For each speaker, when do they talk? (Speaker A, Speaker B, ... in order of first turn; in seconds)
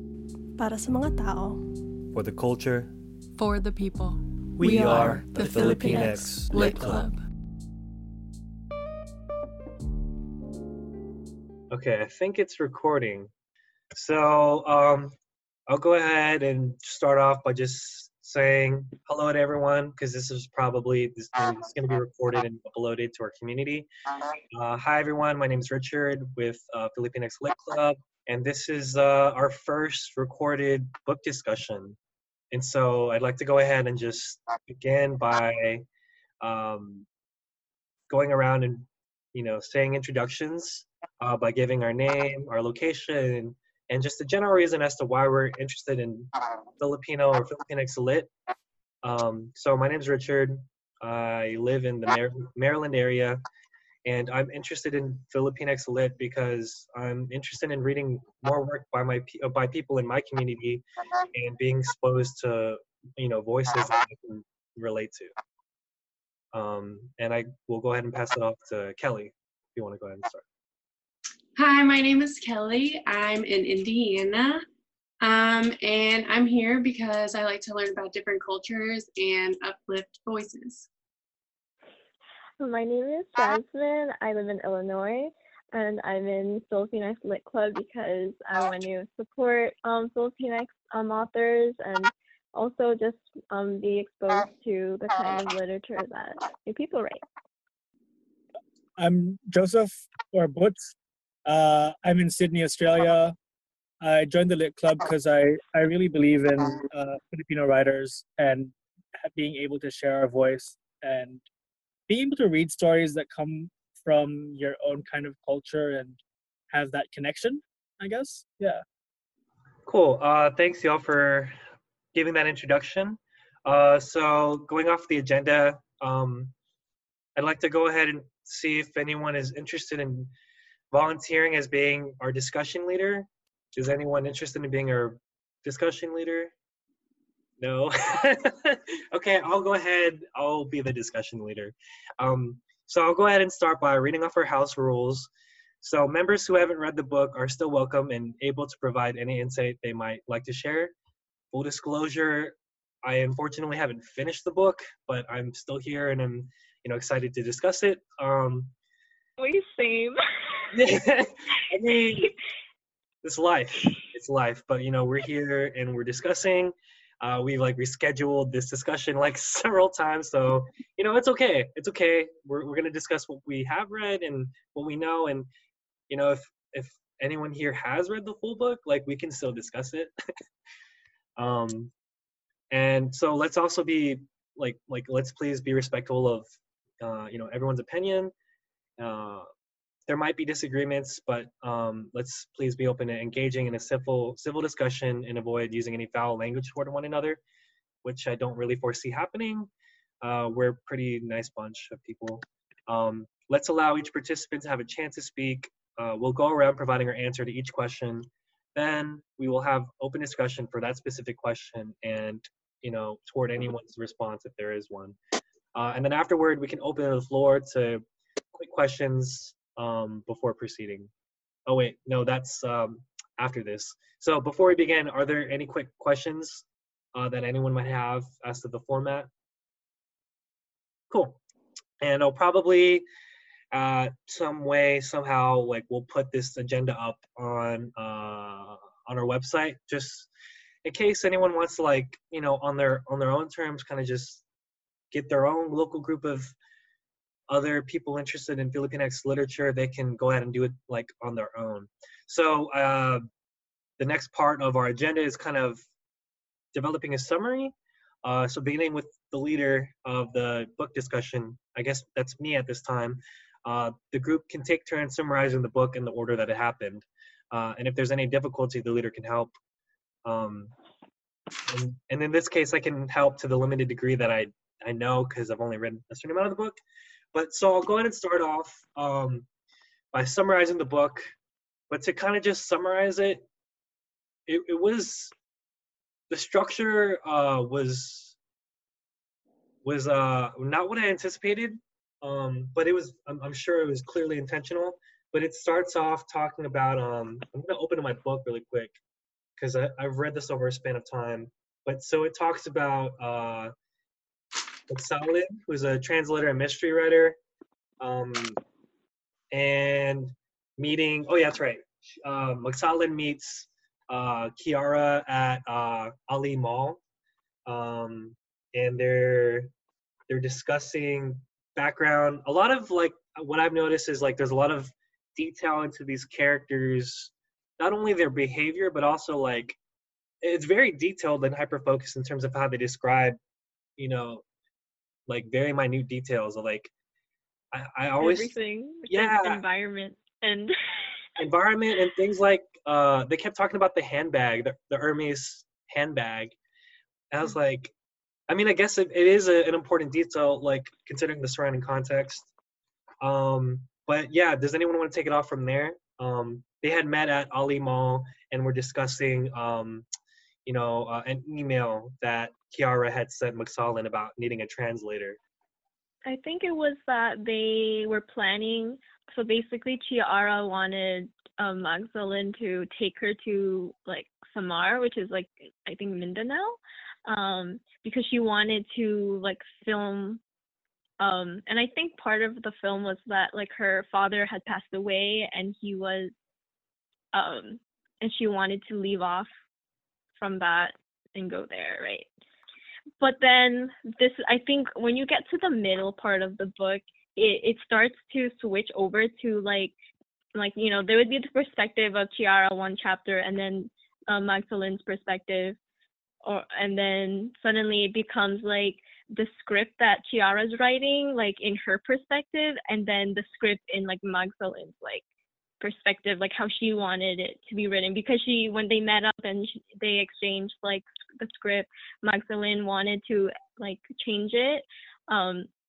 Speaker A: 0.6-1.7, 5.4-6.6
Speaker B: 2.1-2.9, 4.7-7.0
Speaker C: 3.4-7.2
Speaker D: 4.6-5.2, 99.0-100.9, 101.5-103.3, 104.0-111.4, 112.1-116.2, 116.7-118.8
Speaker E: 11.7-13.3, 13.9-15.2, 15.7-23.9, 24.5-32.0, 32.5-35.9, 36.4-37.0, 38.1-48.3, 49.0-53.4, 54.0-65.3, 66.5-70.4, 119.8-121.5, 122.1-126.5, 127.3-130.3, 130.9-136.5, 137.6-145.3, 145.8-150.9, 151.5-158.7, 160.7-162.3, 163.2-175.5, 176.1-180.1, 181.4-181.9, 182.7-186.5, 187.0-188.3, 189.0-189.5, 190.1-197.4, 198.0-199.7, 200.2-215.2, 215.7-221.1, 221.7-229.3, 231.1-231.4, 232.0-233.1, 233.7-240.3, 240.8-244.4, 245.1-246.5, 247.5-253.2, 254.0-255.8, 256.7-269.5, 270.2-270.7, 271.7-276.8, 277.3-279.5, 280.1-281.2, 281.9-283.4, 284.5-285.3, 286.3-288.4, 289.8-299.0, 299.6-303.7, 304.9-307.4, 308.0-308.6, 309.5-317.0, 317.7-319.7, 320.3-329.8, 330.4-333.4, 334.0-334.4, 335.3-336.9, 337.7-338.6, 339.1-339.6, 341.4-346.5, 347.3-347.9, 348.5-352.5, 353.2-360.1, 360.6-365.4
Speaker F: 71.5-74.6, 75.2-80.9
Speaker G: 82.6-97.2, 159.4-160.7, 338.2-340.7, 366.2-380.4, 381.2-386.3, 387.3-389.5, 390.4-392.3, 393.2-399.9, 400.5-405.8, 406.4-415.2, 415.8-425.7